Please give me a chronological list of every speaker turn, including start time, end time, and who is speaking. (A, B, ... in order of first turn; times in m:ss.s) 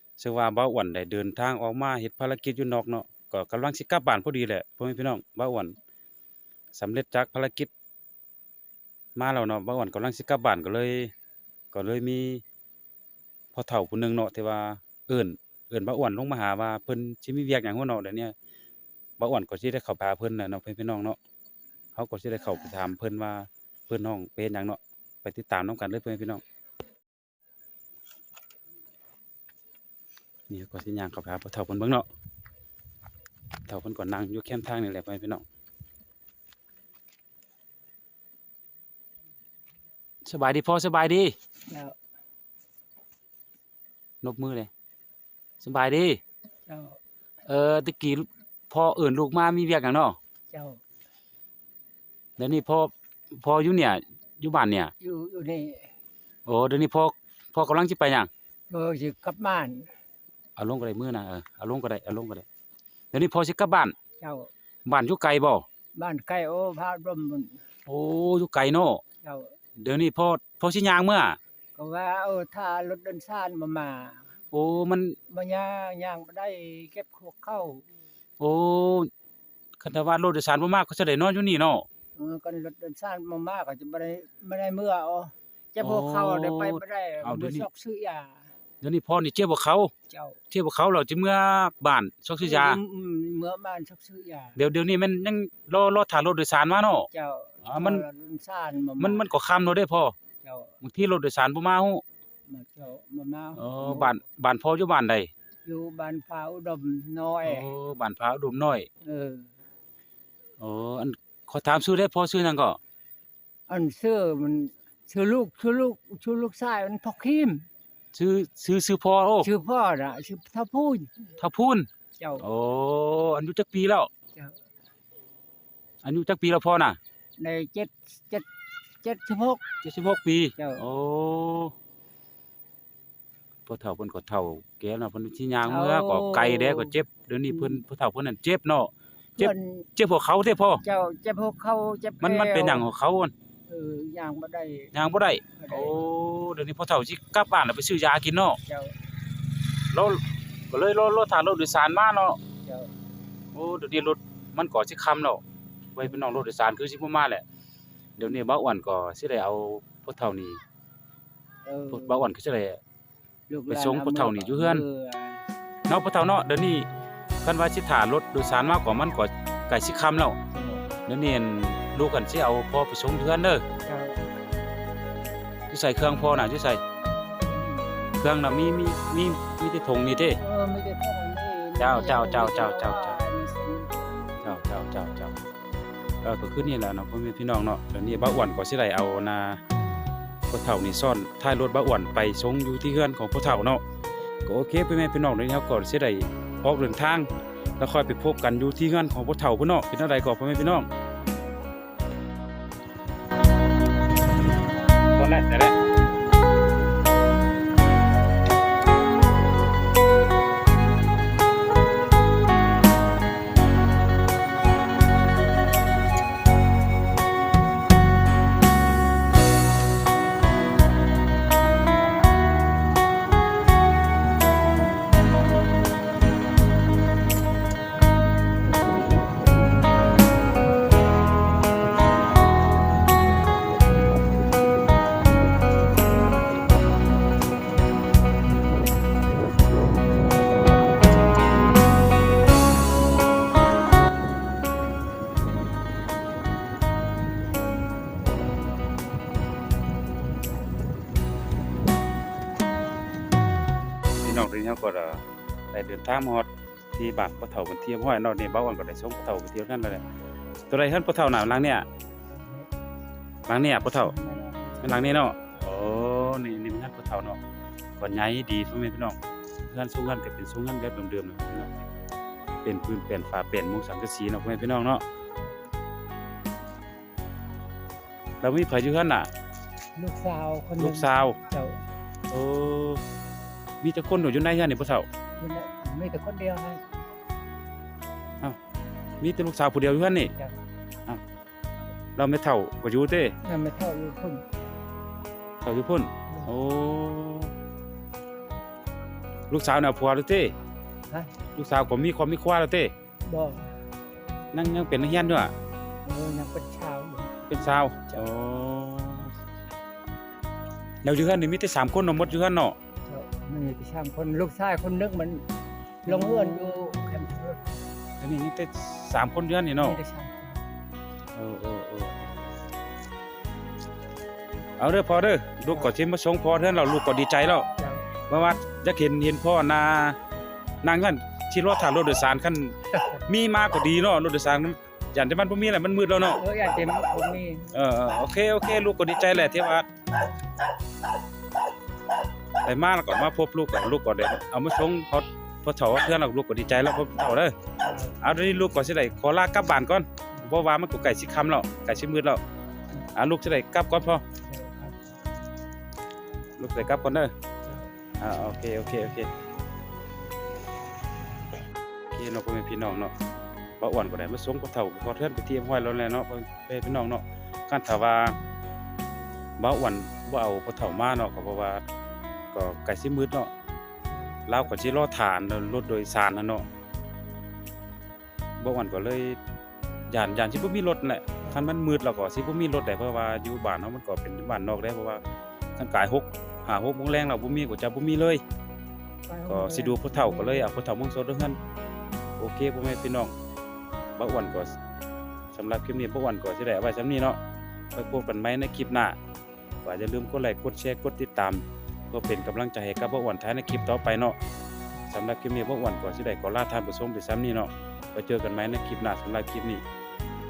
0:00.2-0:05.8 A
0:06.7-0:07.7 A
0:09.2-0:11.1 A
0:11.7-0:12.4 A
0:13.5-0:18.4 A
0:19.2-0:21.2 A
0:22.0-0:26.4 A
0:30.5-0:32.1 A
0:33.7-0:35.4 A
0:40.2-0:41.4 A
0:41.7-0:42.0 B
0:44.2-0:44.7 A
0:45.6-0:46.2 A
0:46.7-0:47.0 B
0:47.5-0:50.2 A
0:50.5-0:50.8 B
0:52.4-0:54.9 A
0:55.0-0:55.9 B
0:56.5-0:58.3 A
0:58.7-0:59.9 B
1:00.6-1:02.5 A
1:03.1-1:04.0 A
1:04.2-1:04.5 B
1:04.8-1:05.7 A
1:06.0-1:07.6 B
1:07.9-1:09.0 A
1:09.2-1:09.6 B
1:09.8-1:11.4 A
1:11.8-1:14.3 B
1:14.5-1:15.2 A
1:15.3-1:17.9 B
1:18.4-1:19.1 A
1:19.8-1:21.9 A
1:22.2-1:28.5 B
1:25.8-1:27.7 A
1:28.8-1:29.9 A
1:30.1-1:30.4 B
1:30.5-1:32.8 A
1:32.4-1:34.6 B
1:34.6-1:37.1 A
1:37.1-1:39.3 B
1:37.6-1:38.0 A
1:39.0-1:40.2 A
1:40.4-1:40.8 B
1:40.8-1:42.0 A
1:42.5-1:44.2 B
1:43.6-1:45.3 A
1:45.6-1:47.7 B
1:47.4-1:48.9 A
1:49.0-1:49.5 B
1:50.6-1:52.8 A
1:53.7-1:57.7 B
1:58.1-1:59.5 A
1:59.4-2:01.1 B
2:01.4-2:04.1 A
2:02.2-2:02.4 B
2:06.0-2:07.0 A
2:07.4-2:08.5 B
2:09.0-2:09.6 B
2:09.8-2:11.7 A
2:10.6-2:10.8 B
2:13.7-2:20.8 A
2:15.6-2:17.0 B
2:17.5-2:17.8 B
2:19.4-2:19.9 B
2:20.8-2:22.9 B
2:22.2-2:23.3 A
2:23.7-2:24.9 B
2:24.9-2:28.6 A
2:25.6-2:26.0 B
2:28.7-2:28.9 B
2:29.9-2:32.4 A
2:32.6-2:32.9 B
2:33.5-2:35.4 A
2:36.0-2:37.4 A
2:38.2-2:40.6 A
2:41.6-2:42.2 B
2:41.9-2:42.8 A
2:43.5-2:45.4 B
2:43.7-2:44.8 A
2:45.9-2:46.9 A
2:47.4-2:50.4 A
2:50.5-2:50.9 B
2:51.1-2:53.6 A
2:53.9-2:54.2 B
2:55.7-2:56.8 A
2:57.4-2:57.9 B
2:58.2-3:00.4 A
3:00.4-3:04.1 B
3:01.8-3:03.2 A
3:04.4-3:05.4 A
3:06.2-3:09.6 A
3:10.5-3:13.8 A
3:14.5-3:20.9 A
3:25.2-3:25.8 A
4:14.2-4:20.0 A
4:20.7-4:21.9 A
4:22.3-4:22.7 B
4:23.5-4:24.2 A
4:23.9-4:25.2 B
4:24.8-4:27.4 A
4:28.0-4:31.8 A
4:32.6-4:35.0 A
4:38.4-4:39.3 A
4:40.0-4:41.8 B
4:40.8-4:41.4 A
4:42.3-4:43.0 A
4:43.8-4:45.1 A
4:45.4-4:46.8 B
4:49.2-4:50.3 A
4:50.4-4:50.6 B
4:52.2-4:53.4 A
4:53.4-4:54.4 B
4:55.6-4:57.5 A
4:59.5-5:00.6 A
5:01.5-5:02.9 A
5:03.3-5:03.8 B
5:04.5-5:05.5 A
5:06.0-5:07.3 B
5:07.5-5:09.3 A
5:11.0-5:12.8 A
5:13.1-5:15.5 B
5:16.0-5:17.8 B
5:16.1-5:16.9 A
5:18.2-5:20.0 A
5:19.8-5:20.6 B
5:21.4-5:22.2 A
5:24.8-5:27.7 A
5:27.8-5:28.2 B
5:28.3-5:30.2 A
5:30.8-5:36.4 A
5:36.3-5:37.8 B
5:37.7-5:39.9 A
5:42.6-5:47.6 A
5:47.8-5:48.2 B
5:48.2-5:52.4 A
5:53.2-5:54.2 A
5:54.4-5:55.0 B
5:56.6-5:57.3 A
5:58.2-5:59.3 A
6:02.1-6:03.1 A
6:03.8-6:08.4 A
6:09.6-6:11.8 A
6:12.5-6:13.5 A
6:14.5-6:16.7 A
6:18.6-6:19.4 A
6:20.1-6:25.2 A
6:25.8-6:28.4 A
6:29.3-6:30.8 B
6:29.5-6:31.6 A
6:32.4-6:33.3 A
6:34.2-6:34.8 A
6:35.5-6:37.4 A
6:38.0-6:39.2 A
6:39.8-6:44.4 A
6:45.1-6:49.8 A